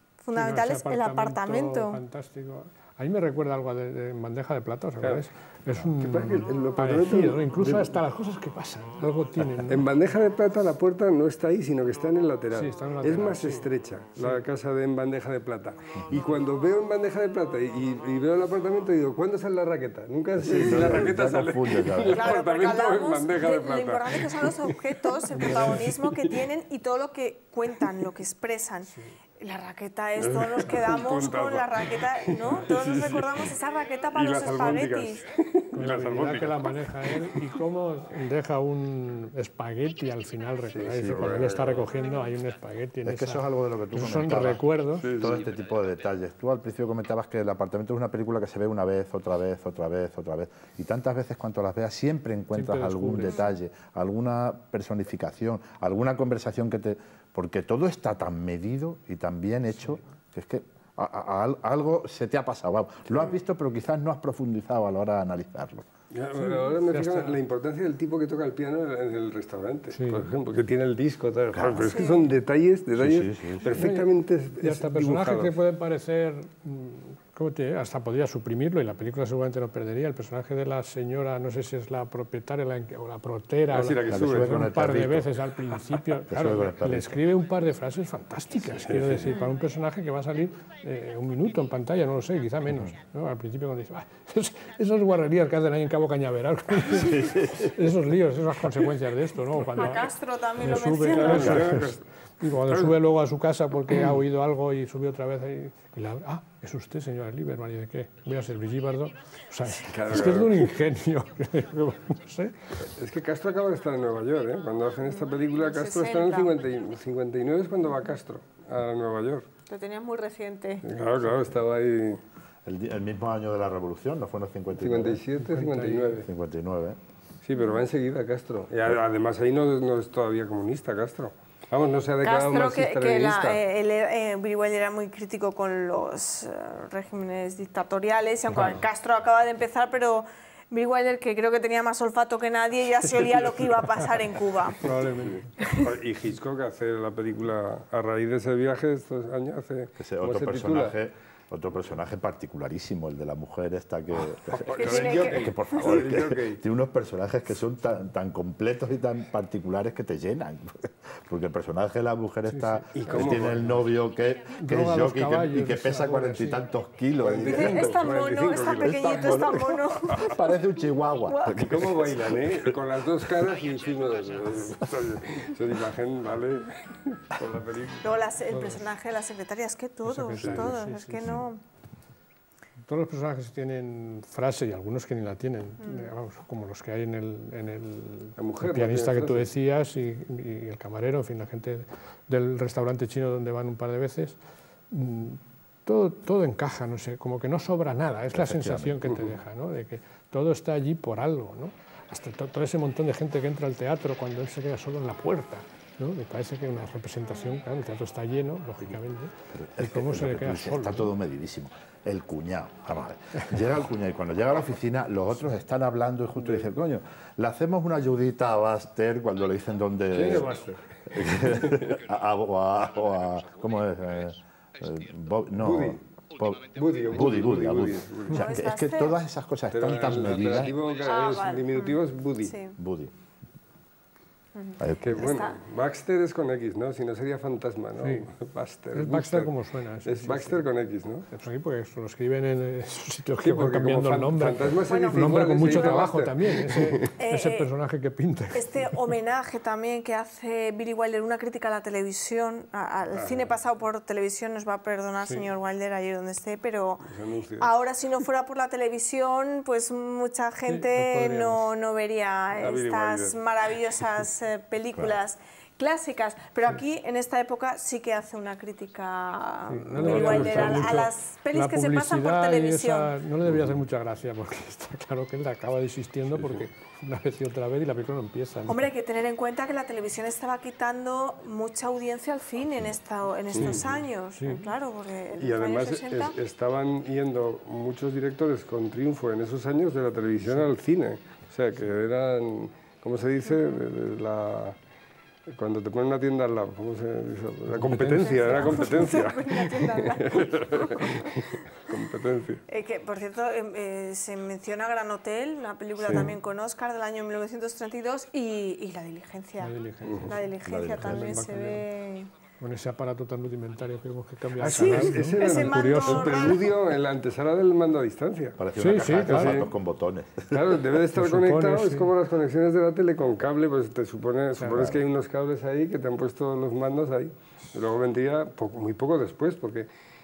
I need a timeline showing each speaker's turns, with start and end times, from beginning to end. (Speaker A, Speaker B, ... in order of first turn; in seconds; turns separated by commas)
Speaker A: 0.2-2.0, Speaker B: 0.3-9.9, Speaker C: 6.0-7.9, Speaker C: 9.7-24.8, Speaker B: 12.5-13.7, Speaker D: 20.4-22.4, Speaker A: 22.1-35.2, Speaker B: 25.3-25.9, Speaker C: 25.4-26.4, Speaker C: 30.2-33.5, Speaker C: 34.1-37.4, Speaker B: 35.7-45.1, Speaker C: 40.7-41.9, Speaker A: 41.9-42.4, Speaker D: 43.0-44.6, Speaker C: 45.0-45.4, Speaker D: 45.1-65.9, Speaker B: 52.5-53.4, Speaker C: 66.1-75.5, Speaker B: 66.4-67.4, Speaker B: 69.9-70.3, Speaker D: 71.5-72.0, Speaker A: 71.8-72.3, Speaker D: 73.0-73.8, Speaker B: 73.7-74.1, Speaker B: 74.6-112.9, Speaker C: 83.7-84.7, Speaker D: 84.1-85.3, Speaker D: 86.3-87.2, Speaker C: 88.9-89.3, Speaker A: 89.3-89.5, Speaker D: 97.0-97.7, Speaker A: 99.7-101.9, Speaker C: 101.1-102.0, Speaker C: 109.8-110.7, Speaker C: 112.9-119.5, Speaker A: 115.1-116.6, Speaker A: 119.7-120.9, Speaker C: 120.8-122.2, Speaker D: 122.6-125.2, Speaker C: 124.8-126.3, Speaker B: 125.4-126.2, Speaker D: 126.2-127.0, Speaker C: 127.4-133.6, Speaker A: 127.6-127.8, Speaker A: 132.2-145.0, Speaker B: 138.5-138.8, Speaker B: 144.8-145.5, Speaker C: 145.3-151.0, Speaker A: 145.6-145.9, Speaker D: 150.0-167.9, Speaker C: 154.4-156.6, Speaker A: 154.7-155.9, Speaker B: 162.5-163.8, Speaker C: 162.9-163.6, Speaker B: 164.5-166.6, Speaker C: 167.2-170.3, Speaker A: 167.4-170.4, Speaker D: 168.8-172.8, Speaker A: 171.2-171.9, Speaker C: 171.5-178.3, Speaker A: 178.0-181.6, Speaker B: 178.5-178.9, Speaker B: 180.1-181.4, Speaker C: 180.4-180.7, Speaker B: 182.9-194.4, Speaker A: 185.8-186.1, Speaker C: 188.4-189.5, Speaker B: 194.9-211.1, Speaker D: 198.3-199.0, Speaker A: 207.2-207.6, Speaker D: 209.5-230.8, Speaker C: 216.4-216.7, Speaker C: 220.1-222.0, Speaker C: 225.6-226.0, Speaker C: 226.8-228.5, Speaker A: 228.3-229.2, Speaker C: 229.7-232.6, Speaker A: 230.9-232.8, Speaker D: 232.8-233.1, Speaker A: 234.6-235.6, Speaker D: 234.8-235.2, Speaker C: 235.0-239.5, Speaker B: 238.0-238.3, Speaker B: 238.9-240.6, Speaker C: 240.1-241.3, Speaker B: 241.3-249.0, Speaker C: 243.4-247.1, Speaker A: 244.8-246.0, Speaker A: 247.2-247.7, Speaker A: 248.5-273.1, Speaker C: 253.1-253.6, Speaker C: 257.1-257.8, Speaker B: 260.7-261.7, Speaker C: 262.5-263.4, Speaker B: 269.7-278.9, Speaker C: 270.0-271.0, Speaker A: 278.7-286.4, Speaker C: 283.5-283.9, Speaker B: 283.6-284.7, Speaker C: 285.4-294.8, Speaker A: 293.5-293.8, Speaker C: 295.5-302.6, Speaker B: 297.7-299.1, Speaker A: 298.2-301.6, Speaker A: 302.7-309.7, Speaker C: 306.0-306.3, Speaker B: 309.6-310.4, Speaker C: 310.1-310.3, Speaker A: 310.3-312.3, Speaker D: 310.6-311.4, Speaker B: 311.0-311.9, Speaker B: 312.6-316.6, Speaker C: 314.6-318.6, Speaker A: 314.6-316.6, Speaker D: 318.6-320.8, Speaker B: 318.8-319.6, Speaker C: 319.2-319.7, Speaker C: 320.5-329.9, Speaker B: 321.1-322.1, Speaker B: 324.6-324.9, Speaker D: 324.8-325.0